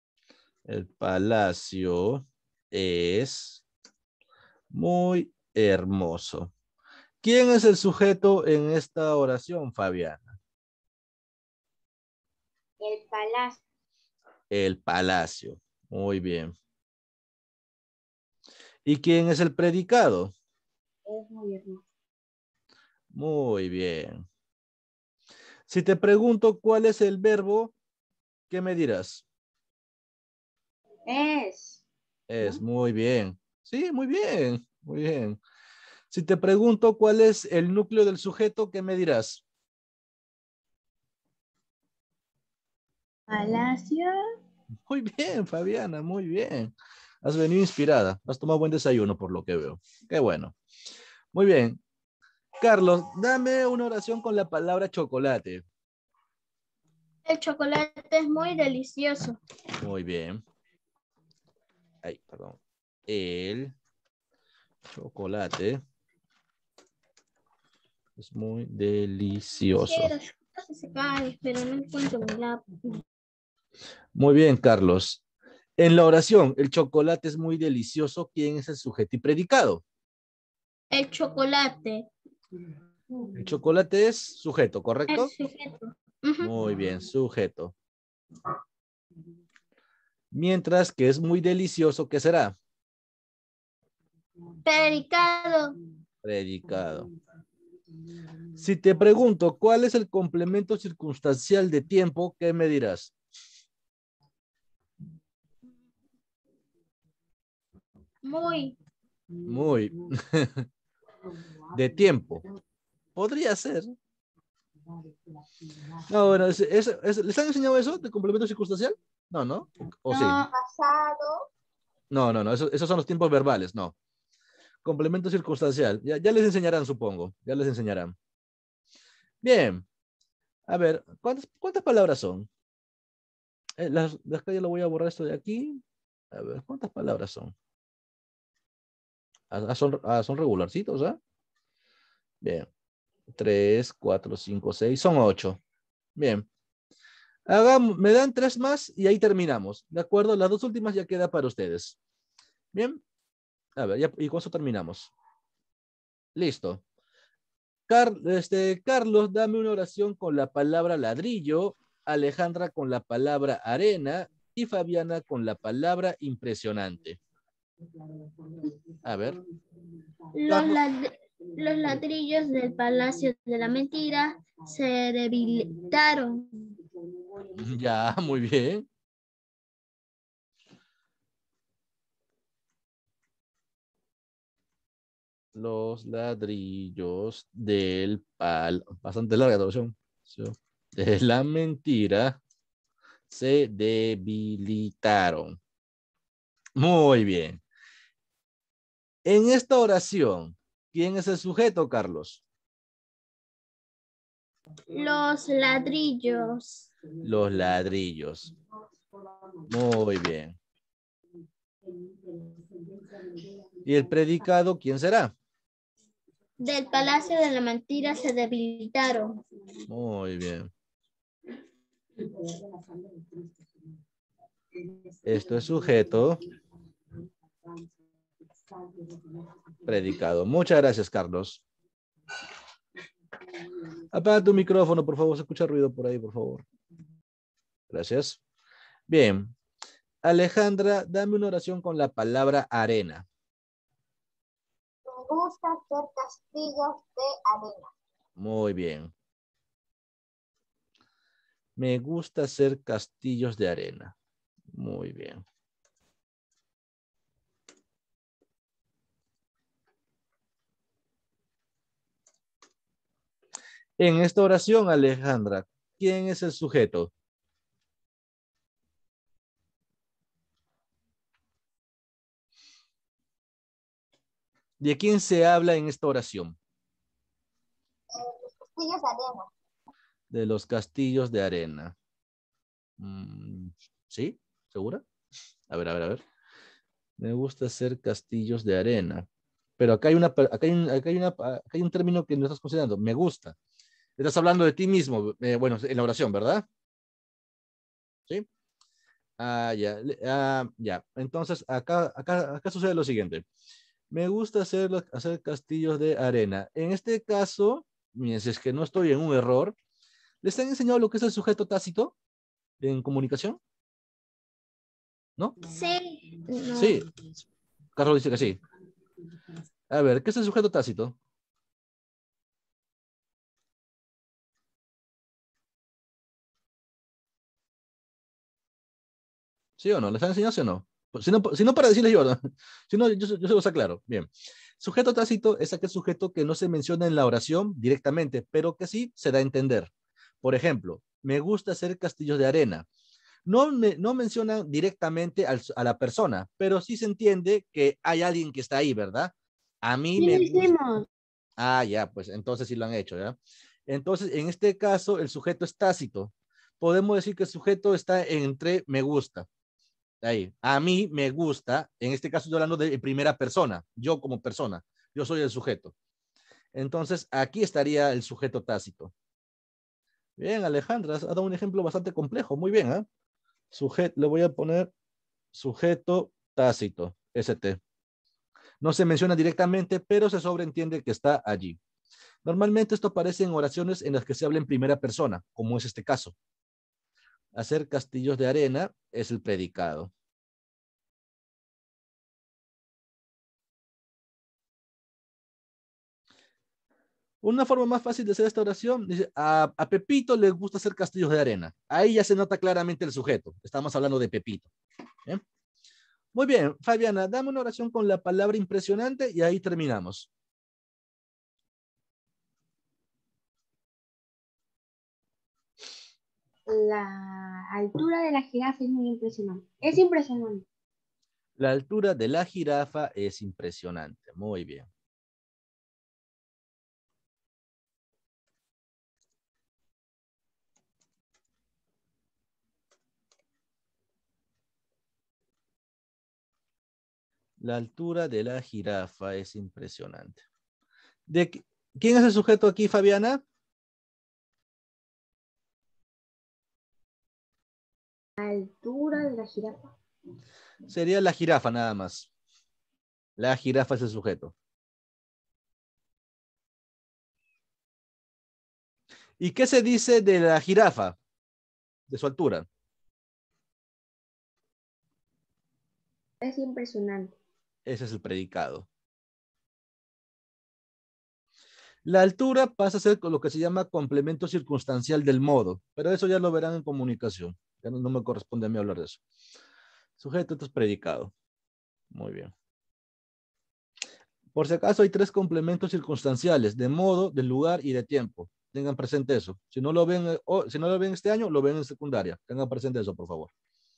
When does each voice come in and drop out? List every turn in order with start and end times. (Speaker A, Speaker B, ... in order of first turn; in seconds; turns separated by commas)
Speaker A: 0.7-3.6, Speaker A: 4.7-6.5, Speaker A: 7.2-10.4, Speaker B: 12.8-13.6, Speaker A: 14.5-16.5, Speaker A: 18.8-20.3, Speaker B: 21.0-21.8, Speaker A: 23.1-24.2, Speaker A: 25.7-27.7, Speaker A: 28.5-29.2, Speaker B: 31.1-31.8, Speaker A: 32.3-35.4, Speaker A: 36.1-39.4, Speaker B: 43.3-44.1, Speaker A: 44.9-50.5, Speaker A: 51.3-51.8, Speaker A: 52.6-55.6, Speaker C: 57.2-59.4, Speaker A: 59.8-60.4, Speaker A: 62.0-63.7, Speaker A: 64.9-65.8, Speaker A: 68.2-70.1, Speaker C: 69.7-73.0, Speaker A: 74.1-75.2, Speaker A: 75.8-79.8, Speaker C: 80.9-82.1, Speaker A: 83.3-85.3, Speaker C: 85.1-86.5, Speaker A: 86.4-87.7, Speaker A: 90.3-92.5, Speaker C: 94.6-95.8, Speaker A: 96.2-97.1, Speaker A: 98.5-103.1, Speaker C: 108.2-108.8, Speaker A: 109.4-110.7, Speaker A: 111.7-112.4, Speaker A: 113.2-114.0, Speaker A: 116.0-120.4, Speaker B: 120.1-120.5, Speaker D: 120.2-121.5, Speaker A: 122.1-123.9, Speaker A: 124.8-128.1, Speaker A: 129.4-129.8, Speaker A: 130.7-132.5, Speaker A: 133.8-135.8, Speaker A: 136.3-137.5, Speaker A: 139.5-141.2, Speaker A: 142.4-142.7, Speaker A: 143.3-145.6, Speaker A: 146.2-146.5, Speaker A: 147.5-152.0, Speaker A: 152.7-153.0, Speaker A: 153.8-155.1, Speaker A: 156.3-156.8, Speaker A: 157.9-167.2, Speaker A: 169.0-169.4, Speaker C: 170.3-176.8, Speaker A: 170.5-170.8, Speaker A: 177.5-178.9, Speaker A: 185.5-192.4, Speaker A: 193.3-195.6, Speaker A: 196.8-197.6, Speaker A: 199.2-202.4, Speaker C: 204.9-206.9, Speaker A: 207.2-208.5, Speaker A: 209.7-210.6, Speaker A: 213.8-215.3, Speaker C: 216.6-219.4, Speaker A: 219.9-220.7, Speaker A: 225.2-226.4, Speaker A: 229.8-231.6, Speaker A: 234.1-236.7, Speaker A: 237.9-238.4, Speaker A: 239.1-239.5, Speaker A: 240.2-243.2, Speaker D: 245.0-247.9, Speaker A: 248.4-249.1, Speaker A: 251.8-254.2, Speaker A: 254.7-255.4, Speaker A: 264.0-267.1, Speaker A: 274.8-276.6, Speaker D: 278.1-279.5, Speaker A: 280.3-281.9, Speaker A: 283.0-285.0, Speaker A: 285.7-286.2, Speaker A: 287.2-289.2, Speaker A: 289.8-293.6, Speaker A: 294.2-296.6, Speaker A: 299.4-303.4, Speaker A: 304.1-309.8, Speaker A: 310.4-312.1, Speaker A: 312.8-313.6, Speaker C: 315.6-317.0, Speaker A: 316.7-317.1, Speaker A: 317.9-318.6, Speaker A: 319.9-321.1, Speaker A: 329.8-339.9, Speaker A: 340.4-342.9, Speaker A: 343.4-350.7, Speaker B: 350.2-351.1, Speaker A: 351.6-359.5, Speaker A: 360.2-365.9, Speaker A: 366.7-369.1, Speaker A: 370.4-373.1, Speaker A: 373.7-374.9, Speaker A: 375.5-377.8, Speaker A: 378.8-381.8, Speaker A: 382.4-386.3, Speaker A: 387.5-390.1, Speaker A: 397.4-404.7, Speaker A: 406.3-410.3, Speaker B: 416.7-420.6, Speaker A: 421.6-424.9, Speaker A: 437.6-440.4, Speaker A: 441.3-443.4, Speaker B: 448.4-449.9, Speaker A: 450.9-452.3, Speaker A: 453.4-454.5, Speaker A: 459.4-461.2, Speaker A: 462.1-462.7, Speaker B: 466.4-467.3, Speaker A: 467.9-468.9, Speaker A: 472.0-479.2, Speaker A: 480.2-481.3, Speaker A: 482.1-482.5, Speaker A: 484.5-493.5